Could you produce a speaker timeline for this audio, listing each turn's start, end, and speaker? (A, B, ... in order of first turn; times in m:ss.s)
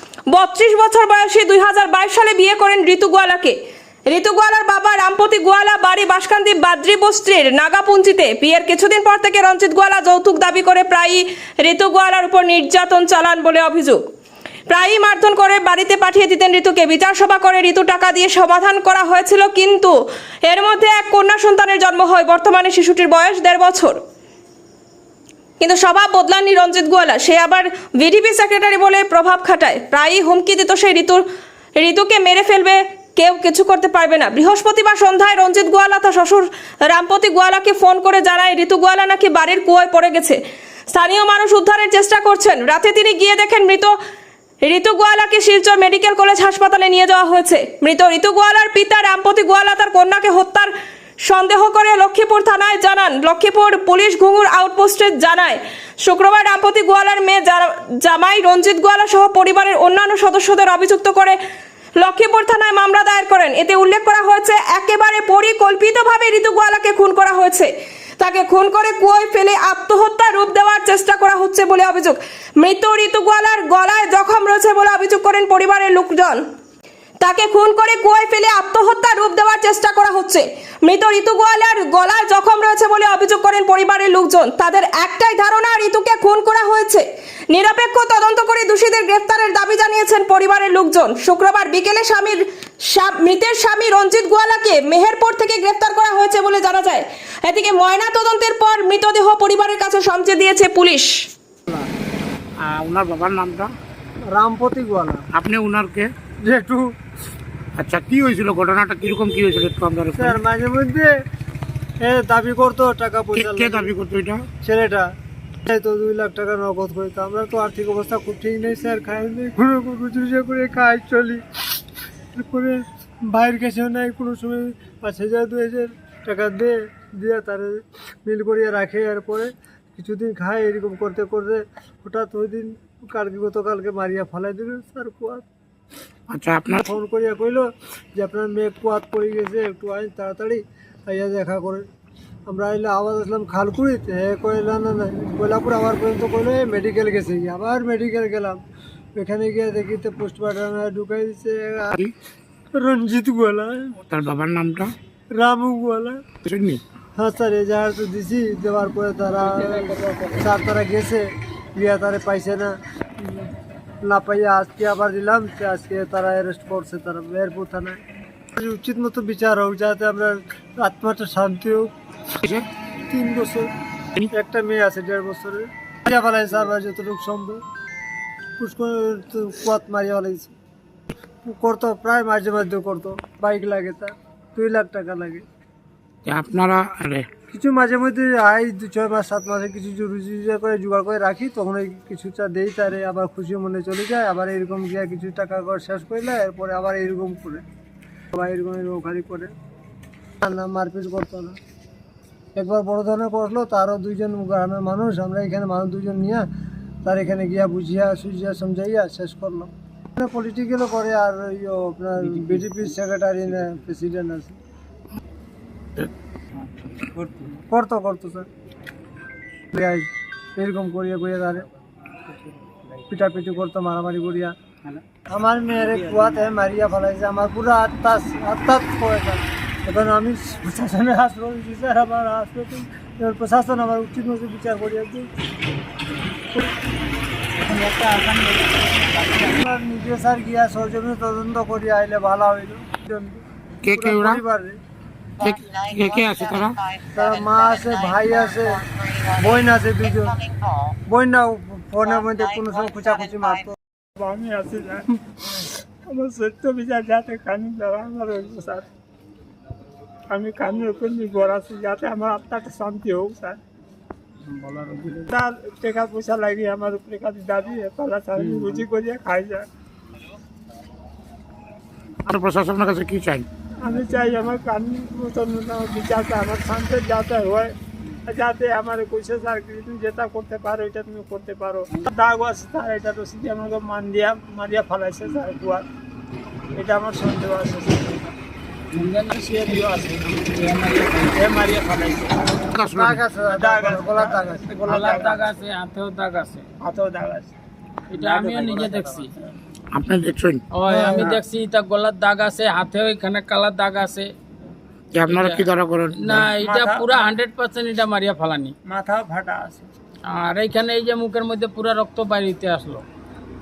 0:00.3-0:03.6 A
0:04.1-0:14.0 A
0:14.7-0:19.9 A
0:20.4-0:24.0 A
0:25.6-0:31.2 A
0:31.8-0:40.4 A
0:40.9-0:43.9 A
0:44.6-0:50.7 A
0:51.2-1:01.4 A
1:02.0-1:16.4 A
1:17.2-1:41.1 A
1:42.6-1:43.7 B
1:44.3-1:45.2 C
1:45.3-1:46.1 B
1:46.4-1:46.9 C
1:47.8-1:50.4 B
1:50.1-1:51.1 C
1:52.0-1:53.9 C
1:53.3-1:54.4 B
1:54.6-1:55.1 C
1:55.6-2:01.4 C
2:02.3-2:15.4 C
2:16.3-2:16.8 B
2:16.8-2:21.8 C
2:22.5-2:28.6 C
2:29.2-2:32.0 C
2:32.7-2:34.0 C
2:34.1-2:34.9 B
2:35.4-2:36.2 C
2:36.4-2:36.8 B
2:37.2-2:43.5 C
2:39.4-2:40.4 D
2:44.0-2:48.0 C
2:48.5-2:51.9 C
2:53.1-2:53.7 C
2:54.3-2:57.6 C
2:58.6-3:00.5 C
3:01.4-3:05.4 C
3:06.2-3:07.3 B
3:07.5-3:17.6 C
3:18.3-3:19.5 C
3:20.4-3:21.6 C
3:22.6-3:26.4 C
3:27.0-3:34.6 C
3:32.2-3:32.8 D
3:36.6-3:37.6 D
3:37.7-3:38.5 C
3:39.7-3:41.6 C
3:43.1-3:44.5 C
3:45.3-3:55.3 C
3:45.8-3:46.4 D
3:57.7-3:58.6 D
3:59.2-4:04.8 C
4:03.8-4:04.4 B
4:05.4-4:06.8 B
4:07.1-4:10.4 C
4:11.1-4:13.8 C
4:14.2-4:18.8 E
4:20.3-4:23.6 E
4:24.4-4:25.3 D
4:25.3-4:29.6 E
4:28.4-4:28.8 D
4:32.3-4:33.5 B
4:33.8-4:37.7 E
4:38.2-4:45.8 E
4:46.7-4:48.3 E
4:48.9-4:51.4 D
4:49.3-4:50.4 E
4:51.3-4:52.4 E
4:52.7-4:53.2 B
4:52.8-4:54.7 C
4:53.5-4:55.6 E
4:54.8-4:56.7 D
4:56.8-4:57.5 E
4:58.1-4:59.3 D
4:58.1-4:59.3 E
4:59.9-5:00.6 B
5:00.7-5:04.3 D
5:00.9-5:01.4 C
5:05.1-5:06.5 B
5:05.3-5:08.7 D
5:06.5-5:07.3 E
5:08.9-5:09.9 E
5:10.3-5:13.0 D